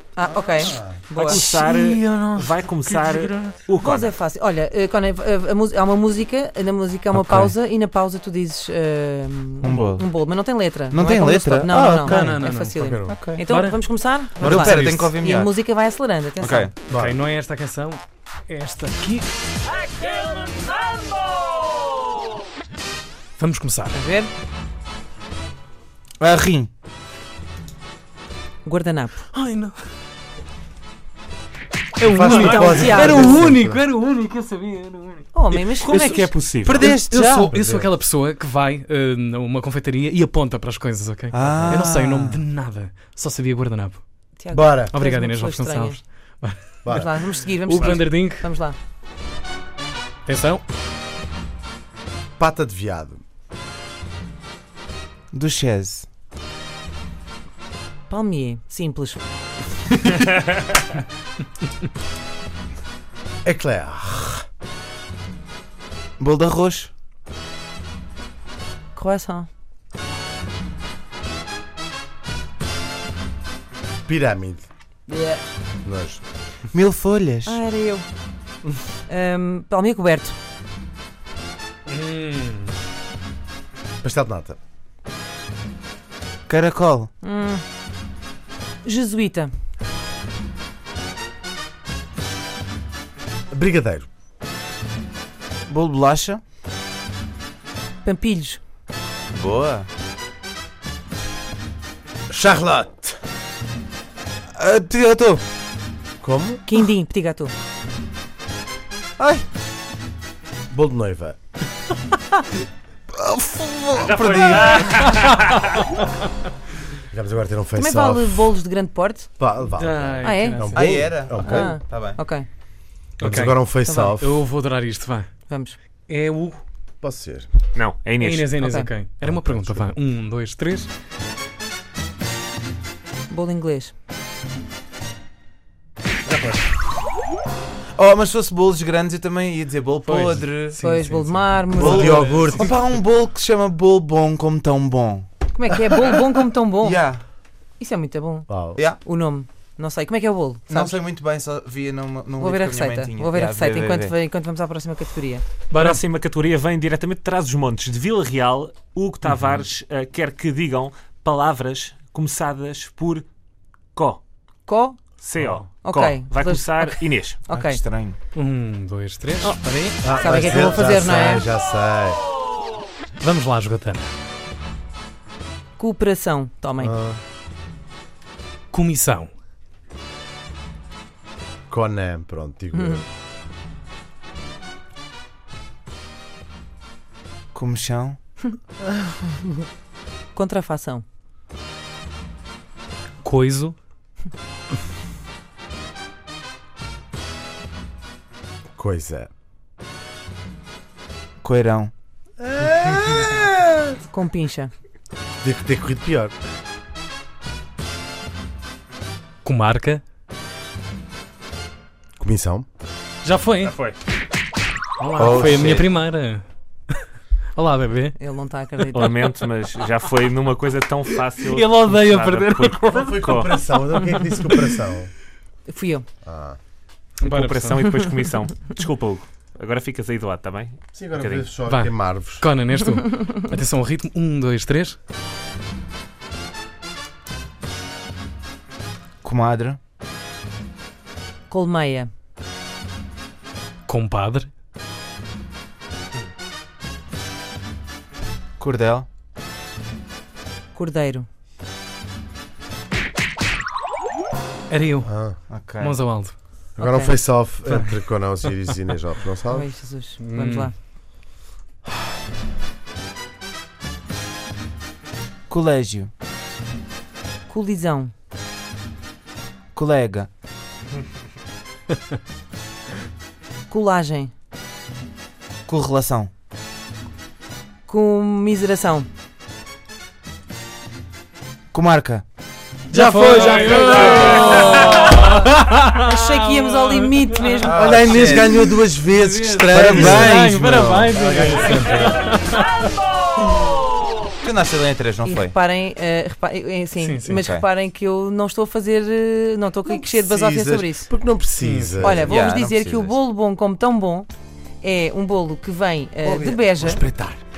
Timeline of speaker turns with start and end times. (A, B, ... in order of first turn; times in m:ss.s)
0:00.2-0:01.4 A
0:00.5-0:01.0 B
0:01.2-0:04.1 C
0:01.3-0:03.6 D
0:03.8-0:16.7 A
0:07.1-0:07.5 E
0:09.6-0:10.1 E
0:10.9-0:12.4 E
0:12.0-0:12.9 D
0:12.8-0:13.2 B
0:13.1-0:13.4 E
0:13.4-0:15.1 D
0:14.4-0:15.5 E
0:16.4-0:16.8 E
0:16.9-0:19.3 D
0:16.9-0:17.2 B
0:23.4-0:24.0 D
0:23.9-0:24.3 A
0:26.2-0:26.7 E
0:28.6-0:29.2 A
0:29.3-0:29.8 D
0:32.0-0:35.3 D
0:32.1-0:33.8 B
0:32.2-0:33.4 A
0:33.0-0:33.4 E
0:35.3-0:36.3 A
0:35.8-0:36.9 C
0:35.9-0:37.5 E
0:36.8-0:44.0 D
0:36.9-0:37.9 B
0:41.3-0:42.4 E
0:44.4-0:46.0 A
0:44.5-0:44.9 B
0:44.9-0:46.8 D
0:46.9-0:48.8 A
0:47.6-0:48.5 D
0:50.3-0:50.6 D
0:52.4-0:53.2 B
0:55.3-0:56.1 E
0:58.1-0:59.2 A
1:03.4-1:04.4 B
1:06.2-1:06.9 E
1:09.0-1:09.5 A
1:14.1-1:14.7 B
1:15.1-1:15.4 A
1:15.8-1:16.2 B
1:16.7-1:17.6 E
1:17.5-1:18.0 A
1:19.1-1:20.3 A
1:21.9-1:22.7 D
1:24.0-1:24.6 B
1:26.5-1:27.1 E
1:27.2-1:27.6 A
1:28.8-1:29.5 A
1:33.5-1:34.1 B
1:35.7-1:36.4 E
1:38.0-1:38.6 A
1:39.3-1:39.9 E
1:42.3-1:43.2 B
1:44.6-1:45.4 E
1:46.2-1:46.6 B
1:46.7-1:47.5 A
1:49.2-1:49.4 E
1:50.7-1:51.4 B
1:53.1-1:54.9 E
1:53.9-1:55.6 C
1:57.1-1:58.4 B
1:57.8-1:59.3 A
1:59.4-2:01.8 B
1:59.8-2:00.9 D
2:00.2-2:02.5 A
2:00.7-2:02.2 E
2:03.2-2:04.4 B
2:03.2-2:05.3 D
2:03.9-2:04.1 A
2:05.5-2:05.8 A
2:06.1-2:06.6 D
2:07.0-2:07.5 B
2:07.8-2:08.5 C
2:08.2-2:10.9 D
2:08.6-2:08.9 A
2:09.2-2:10.0 B
2:13.3-2:13.9 A
2:16.3-2:16.7 B
2:18.0-2:20.8 E
2:20.1-2:22.7 D
2:20.8-2:22.4 A
2:21.8-2:22.8 B
2:21.8-2:25.3 E
2:25.5-2:27.2 A
2:26.8-2:27.2 E
2:27.8-2:31.0 A
2:28.5-2:28.8 B
2:28.8-2:29.0 E
2:30.7-2:34.2 E
2:32.4-2:35.4 A
2:35.7-2:43.3 C
2:35.7-2:36.0 D
2:44.0-2:44.2 C
2:44.7-2:45.0 A
2:45.2-2:47.5 C
2:45.8-2:47.8 A
2:47.5-2:48.2 E
2:48.3-2:50.0 D
2:49.4-2:51.5 A
2:50.0-2:52.2 B
2:53.2-2:54.1 D
2:55.8-2:57.0 A
2:56.8-2:57.2 B
2:58.7-2:59.3 D
3:01.7-3:03.0 B
3:02.7-3:03.0 A
3:07.5-3:08.2 E
3:10.4-3:11.0 A
3:13.2-3:13.8 D
3:18.8-3:19.3 B
3:21.4-3:21.9 E
3:22.4-3:23.5 B
3:24.1-3:24.7 A
3:25.4-3:26.3 B
3:29.4-3:30.0 D
3:32.2-3:32.7 B
3:33.2-3:33.8 D
3:33.6-3:34.0 C
3:35.0-3:38.2 D
3:35.2-3:35.8 B
3:38.2-3:39.3 A
3:38.9-3:43.6 C
3:41.4-3:43.5 D
3:42.9-3:45.1 B
3:45.7-3:46.1 A
3:46.2-3:46.6 B
3:47.2-3:47.8 D
3:47.2-3:51.5 C
3:50.9-3:52.4 B
3:51.7-3:55.0 D
3:59.2-3:59.8 E
4:01.5-4:02.1 A
4:03.9-4:04.5 D
4:08.6-4:09.1 E
4:10.7-4:11.3 A
4:14.7-4:16.3 D
4:15.0-4:15.4 B
4:15.5-4:16.0 E
4:16.8-4:19.7 B
4:16.8-4:17.2 A
4:19.5-4:20.7 A
4:20.2-4:20.7 D
4:25.5-4:26.1 E
4:27.5-4:28.1 A
4:29.8-4:30.3 E
4:33.7-4:34.3 A
4:35.7-4:36.3 E
4:37.9-4:39.1 A
4:41.7-4:42.2 E
4:42.9-4:47.7 D
4:43.0-4:44.4 B
4:43.9-4:45.2 A
4:46.0-4:47.8 A
4:47.7-4:48.7 E
4:47.7-4:50.4 B
4:49.1-4:52.6 D
4:49.7-4:51.3 E
4:51.1-4:52.2 B
4:54.4-4:55.6 E
4:55.2-5:01.1 A
4:57.0-4:57.4 D
4:57.3-4:57.6 E
4:59.9-5:02.4 B
5:01.6-5:02.1 D
5:02.0-5:04.3 A
5:02.2-5:03.2 E
5:04.8-5:07.0 A
5:06.2-5:07.4 B